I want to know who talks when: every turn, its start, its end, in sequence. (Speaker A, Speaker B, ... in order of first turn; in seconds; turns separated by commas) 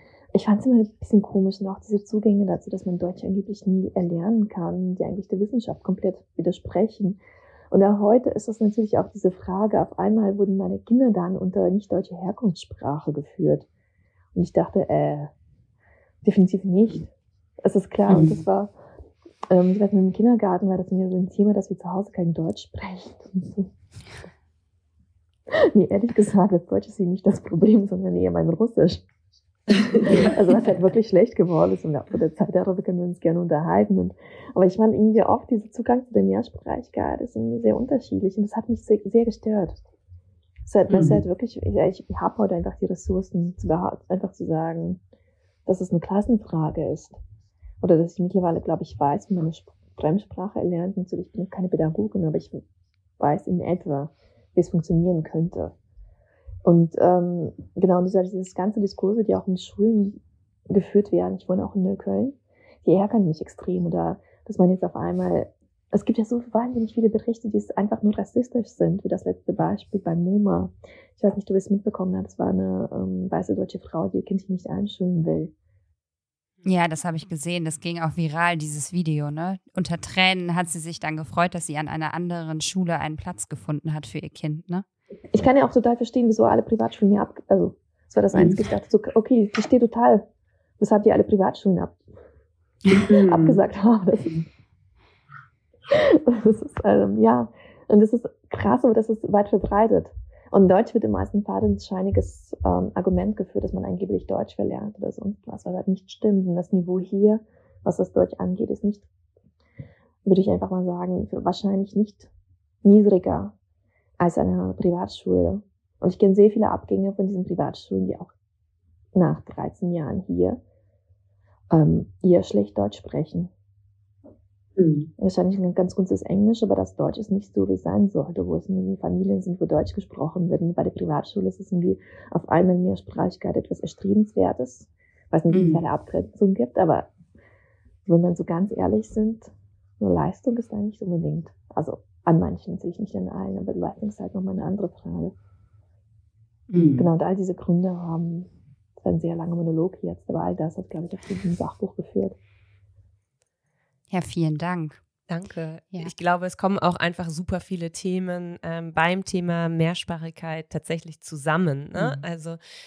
Speaker A: 0.3-7.2, Speaker A: 7.7-13.7, Speaker A: 14.3-15.3, Speaker A: 16.2-17.1, Speaker A: 17.6-18.7, Speaker B: 18.1-18.4, Speaker A: 19.5-23.7, Speaker A: 25.5-29.0, Speaker A: 30.0-39.8, Speaker A: 40.7-45.0, Speaker C: 40.9-41.2, Speaker A: 45.7-47.2, Speaker A: 47.8-52.6, Speaker A: 53.2-55.7, Speaker A: 56.6-60.2, Speaker A: 60.7-75.5, Speaker B: 76.6-84.8, Speaker A: 85.3-90.2, Speaker A: 90.8-92.0, Speaker C: 93.1-93.6, Speaker A: 93.1-94.4, Speaker A: 95.9-109.1, Speaker A: 110.2-112.3, Speaker A: 112.8-113.5, Speaker A: 114.2-118.3, Speaker A: 119.1-120.6, Speaker A: 121.7-123.5, Speaker C: 124.8-125.1, Speaker A: 125.2-137.1, Speaker B: 135.5-135.8, Speaker A: 138.1-145.3, Speaker B: 146.7-147.1, Speaker A: 146.9-152.4, Speaker B: 154.1-155.0, Speaker C: 155.3-162.6, Speaker B: 161.9-162.2